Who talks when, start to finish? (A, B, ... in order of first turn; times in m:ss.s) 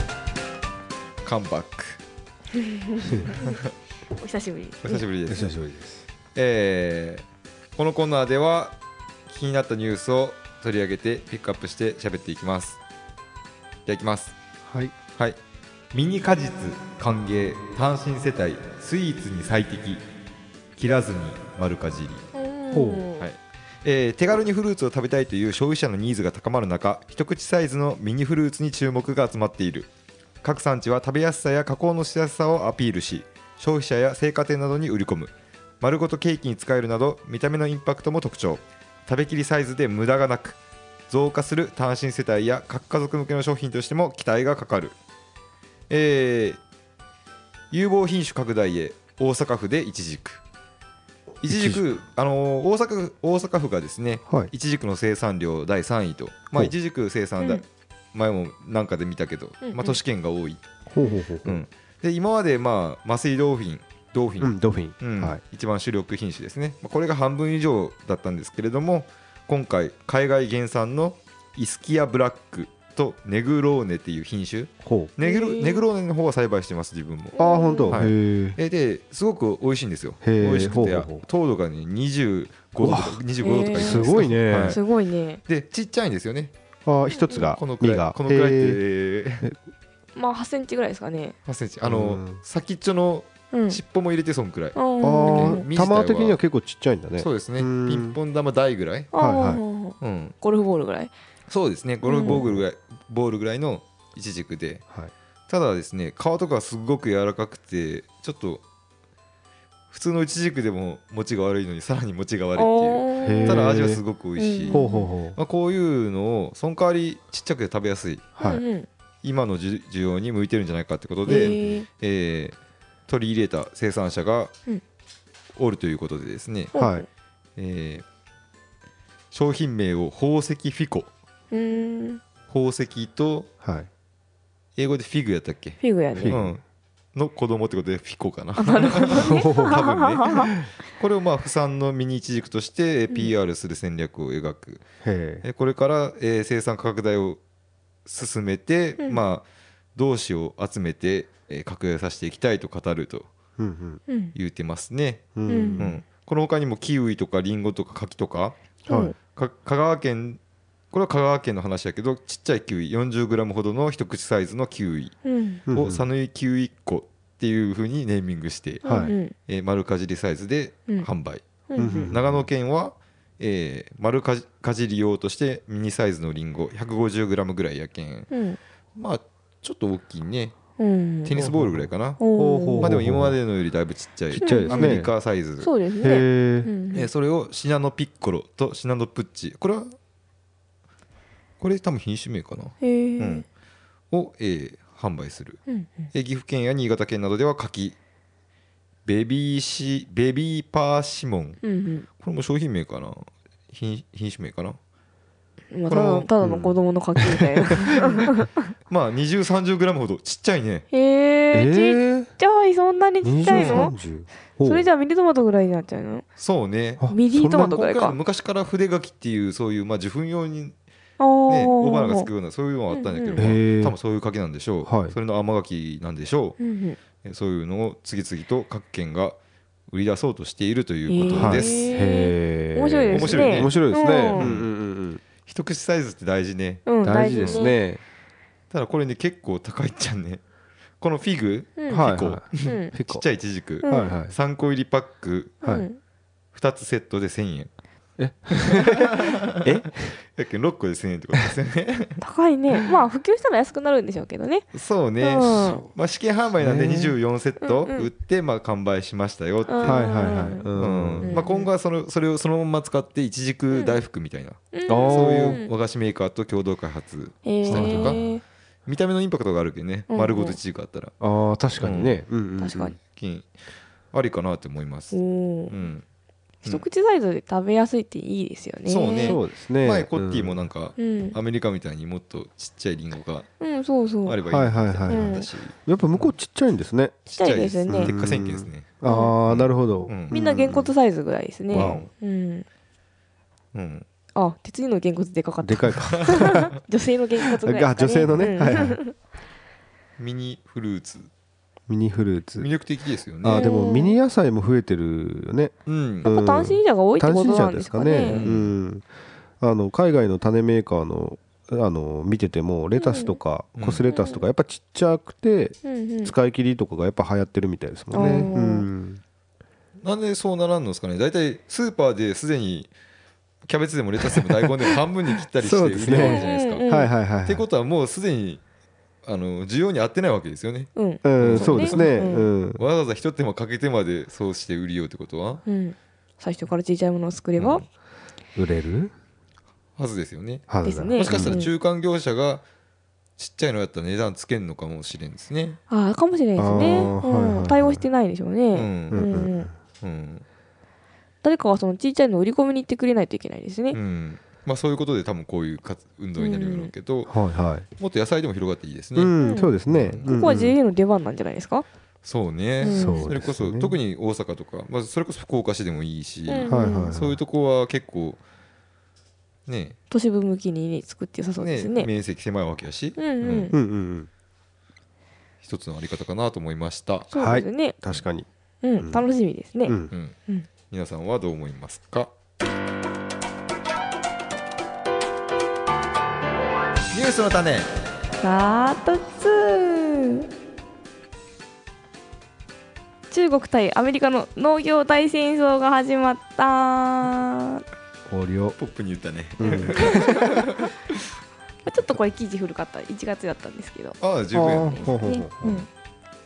0:01.2-0:02.0 A
0:02.5-0:03.6 B
0:03.0-0:03.4 C
0:03.4-0:03.7 A
0:04.2-0:05.1 B
0:04.8-0:05.5 A
0:05.3-0:06.1 C
0:06.4-0:07.2 A
0:07.8-0:08.8 A
0:09.3-0:12.8 A
0:13.9-0:14.4 A
0:14.6-0:15.0 C
0:15.9-0:20.0 A
0:20.8-0:22.3 A
0:22.4-0:23.3 B
0:22.7-0:23.1 C
0:23.2-0:29.9 A
0:30.4-0:40.6 A
0:41.1-0:45.0 A
0:45.9-0:46.6 A
0:47.7-0:50.4 A
0:51.4-0:51.8 C
0:51.4-1:00.6 A
0:59.6-1:00.0 B
1:00.9-1:01.6 C
1:01.4-1:17.4 A
1:04.4-1:05.4 C
1:14.8-1:15.1 C
1:15.2-1:15.8 B
1:17.4-1:18.0 B
1:17.4-1:18.6 C
1:17.9-1:24.8 A
1:20.2-1:21.2 C
1:22.8-1:23.2 C
1:23.4-1:25.4 B
1:23.7-1:24.8 C
1:25.5-1:26.5 A
1:26.9-1:28.8 C
1:27.4-1:29.5 A
1:30.2-1:31.4 B
1:31.5-1:36.4 A
1:31.8-1:32.4 C
1:33.5-1:33.8 B
1:34.8-1:35.6 B
1:35.0-1:38.2 C
1:37.2-1:39.1 A
1:39.1-1:41.1 B
1:39.1-1:39.6 C
1:40.0-1:40.4 A
1:41.5-1:44.8 A
1:42.0-1:42.5 B
1:42.3-1:42.6 C
1:45.5-1:48.6 A
1:49.9-1:58.3 A
1:52.6-1:53.7 B
1:53.2-1:54.0 C
1:54.4-1:55.1 B
1:54.7-1:55.4 C
1:58.4-1:58.6 C
1:58.4-1:58.9 B
1:59.2-2:02.6 A
2:01.3-2:01.9 B
2:01.3-2:01.7 C
2:03.1-2:04.6 A
2:05.6-2:06.7 A
2:06.7-2:07.1 B
2:06.7-2:07.1 C
2:07.6-2:08.0 A
2:09.3-2:11.1 A
2:11.5-2:12.2 B
2:12.5-2:13.5 A
2:13.6-2:13.9 C
2:14.8-2:16.6 A
2:15.8-2:16.4 B
2:16.1-2:16.6 C
2:17.2-2:24.8 A
2:18.6-2:20.5 B
2:19.1-2:20.7 C
2:25.0-2:25.4 C
2:25.4-2:27.4 A
2:28.1-2:29.4 A
2:30.0-2:33.3 A
2:33.6-2:34.0 C
2:34.4-2:38.6 A
2:35.4-2:36.0 C
2:35.5-2:35.9 B
2:38.9-2:39.1 C
2:38.9-2:39.2 B
2:39.3-2:40.4 A
2:40.9-2:45.2 A
2:45.2-2:45.6 B
2:45.7-2:46.1 C
2:45.7-2:51.4 A
2:48.8-2:49.1 C
2:48.8-2:49.3 B
2:51.7-2:52.1 B
2:51.8-2:52.5 C
2:52.1-2:58.3 A
2:58.3-2:58.6 B
2:59.0-3:00.6 A
3:00.8-3:01.4 B
3:01.2-3:05.7 A
3:01.4-3:03.4 C
3:02.2-3:02.9 B
3:04.4-3:05.0 B
3:04.4-3:05.1 C
3:05.6-3:07.1 B
3:06.0-3:06.7 C
3:06.9-3:10.0 A
3:11.6-3:13.4 A
3:12.8-3:13.4 B
3:14.1-3:15.6 A
3:16.1-3:18.0 A
3:19.1-3:21.6 A
3:21.6-3:22.1 B
3:22.2-3:24.8 A
3:25.7-3:28.7 B
3:25.9-3:26.3 A
3:26.4-3:26.8 C
3:28.9-3:30.9 A
3:30.9-3:33.9 B
3:31.5-3:32.3 C
3:33.2-3:34.9 C
3:33.5-3:33.9 A
3:34.6-3:36.2 B
3:36.4-3:40.8 A
3:37.0-3:37.7 C
3:37.1-3:38.2 B
3:41.2-3:42.3 B
3:41.5-3:46.6 A
3:42.9-3:43.5 B
3:43.4-3:44.0 C
3:44.8-3:45.2 C
3:46.6-3:47.0 B
3:47.2-3:49.4 A
3:49.9-3:51.9 A
3:51.1-3:54.5 B
3:51.4-3:55.2 C
3:53.1-3:54.7 A
3:55.4-3:57.6 A
3:56.9-3:57.8 B
3:57.0-3:58.0 C
3:58.7-4:00.4 A
4:01.0-4:05.6 A
4:01.8-4:02.9 B
4:01.9-4:03.2 C
4:03.8-4:04.1 B
4:03.9-4:04.4 C
4:05.6-4:06.0 B
4:06.5-4:07.7 A
4:08.2-4:10.2 C
4:08.5-4:12.2 A
4:12.2-4:14.7 B
4:14.7-4:20.0 A
4:15.2-4:15.8 B
4:15.5-4:15.9 C
4:16.6-4:17.1 C
4:17.6-4:18.1 B
4:19.7-4:20.7 B
4:19.8-4:21.4 C
4:20.8-4:28.2 A
4:21.2-4:21.7 B
4:23.7-4:24.0 B
4:24.7-4:25.7 B
4:24.9-4:25.6 C
4:27.4-4:28.4 B
4:27.6-4:28.2 C
4:28.9-4:31.1 A
4:30.1-4:30.6 B
4:31.2-4:33.0 C
4:31.8-4:32.2 A
4:32.6-4:33.0 B
4:33.0-4:33.5 A
4:34.1-4:35.2 A
4:35.1-4:35.7 B
4:35.7-4:36.0 A
4:36.6-4:39.4 B
4:38.9-4:43.5 A
4:39.2-4:40.7 C
4:41.0-4:41.4 B
4:43.6-4:44.4 B
4:44.3-4:46.3 A
4:44.5-4:47.2 C
4:45.1-4:45.5 B
4:47.3-4:50.3 A
4:47.4-4:48.1 B
4:47.9-4:50.9 C
4:49.1-4:49.4 B
4:50.3-4:52.7 B
4:51.7-4:52.1 C
4:51.7-4:52.1 A
4:53.7-4:54.0 A
4:54.4-4:59.1 B
4:55.6-4:56.7 C
4:56.1-4:56.4 A
4:57.4-4:59.0 C
5:00.2-5:01.3 A
5:01.9-5:02.7 C
5:02.6-5:03.7 A
5:03.4-5:09.1 C
5:03.5-5:04.2 B
5:05.9-5:06.3 A
5:06.2-5:08.4 B
5:08.3-5:08.7 A
5:09.6-5:19.2 C
5:13.0-5:13.4 B
5:13.8-5:14.0 A
5:14.1-5:14.4 B
5:15.8-5:16.4 B
5:18.1-5:18.9 B
5:18.2-5:18.5 A
5:20.0-5:22.9 A
5:23.6-5:26.8 A
5:24.3-5:25.0 C
5:25.6-5:27.7 C
5:26.1-5:27.1 B
5:27.4-5:28.6 A
5:29.2-5:32.2 A
5:31.0-5:32.5 B
5:31.2-5:32.8 C
5:32.8-5:35.6 A
5:35.7-5:37.8 B
5:37.6-5:37.8 A
5:38.6-5:39.1 C
5:40.0-5:40.7 A
5:40.7-5:41.6 C
5:40.8-5:41.7 B
5:41.2-5:42.6 A
5:43.4-5:45.8 A
5:45.9-5:49.7 B
5:46.6-5:48.0 C
5:48.7-5:49.3 A
5:49.1-5:49.7 C
5:50.0-5:50.4 A
5:51.4-5:54.0 B
5:53.9-5:57.4 A
5:56.4-5:56.9 B
5:57.3-5:57.9 C
5:58.0-6:00.3 A
5:59.2-6:00.8 C
5:59.4-6:01.9 B
6:02.2-6:08.4 A
6:02.8-6:03.3 B
6:02.8-6:04.0 C
6:06.5-6:07.2 B
6:06.7-6:07.4 C
6:09.7-6:10.0 A
6:10.1-6:12.1 B
6:11.6-6:13.7 A
6:13.2-6:13.8 B
6:13.7-6:14.3 C
6:15.6-6:17.3 A
6:17.3-6:18.0 B
6:17.3-6:18.5 C
6:18.8-6:20.7 B
6:19.9-6:20.1 C
6:20.9-6:22.3 A
6:27.1-6:27.9 A
6:28.4-6:30.5 B
6:33.3-6:37.8 B
6:38.3-6:38.8 C
6:38.8-6:41.2 A
6:39.6-6:40.2 C
6:40.0-6:40.7 B
6:41.8-6:44.2 B
6:44.2-6:45.1 A
6:44.5-6:45.8 C
6:44.9-6:45.9 B